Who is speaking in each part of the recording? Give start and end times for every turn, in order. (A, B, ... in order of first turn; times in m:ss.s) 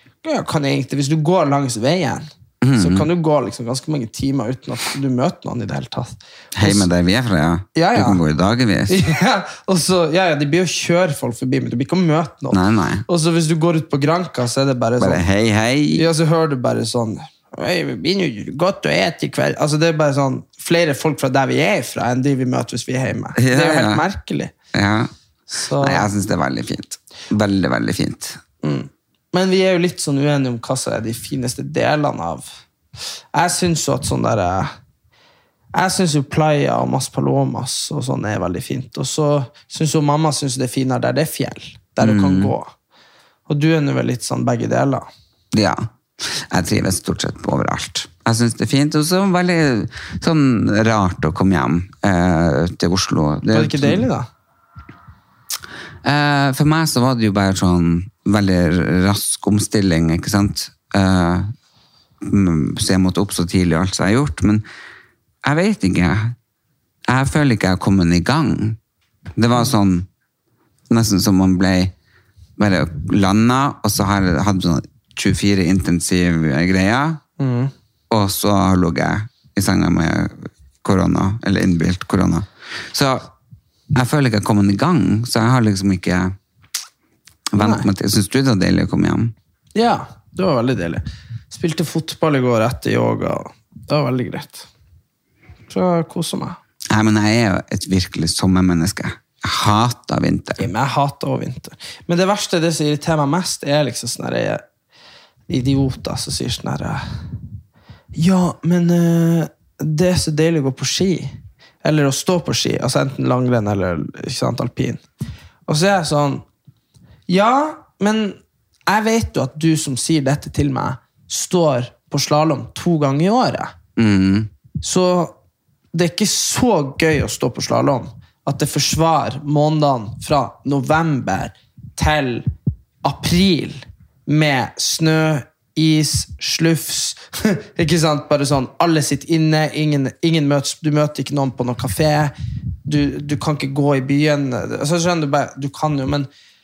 0:00.2-0:06.9 A
0:02.6-0:03.1 B
0:06.5-0:09.0 B
0:07.7-0:08.2 A
0:08.9-0:15.2 A
0:12.5-0:13.0 B
0:15.0-0:16.0 B
0:15.9-0:24.5 A
0:23.4-0:24.0 B
0:24.7-0:25.1 B
0:25.5-0:26.0 A
0:25.8-0:28.4 B
0:28.6-0:32.4 A
0:33.3-0:34.7 A
0:35.7-0:42.7 A
0:42.0-0:42.5 B
0:43.5-0:45.1 A
0:45.5-0:54.0 B
0:53.5-0:54.3 A
0:56.0-1:01.5 B
1:02.2-1:04.6 B
1:05.4-1:06.3 B
1:07.1-1:08.8 B
1:09.4-1:10.1 B
1:10.9-1:11.9 B
1:12.6-1:17.2 B
1:17.4-1:17.7 A
1:18.1-1:23.3 B
1:23.9-1:26.3 B
1:27.5-1:29.3 B
1:27.6-1:27.9 A
1:29.7-1:34.7 A
1:35.7-1:36.6 A
1:36.9-1:40.7 B
1:40.6-1:44.6 A
1:45.5-1:47.0 A
1:48.1-1:55.0 A
1:55.7-1:56.4 A
1:57.3-2:03.7 A
2:04.0-2:04.5 B
2:04.8-2:05.3 A
2:05.9-2:12.5 A
2:13.0-2:22.3 A
2:22.8-2:26.3 A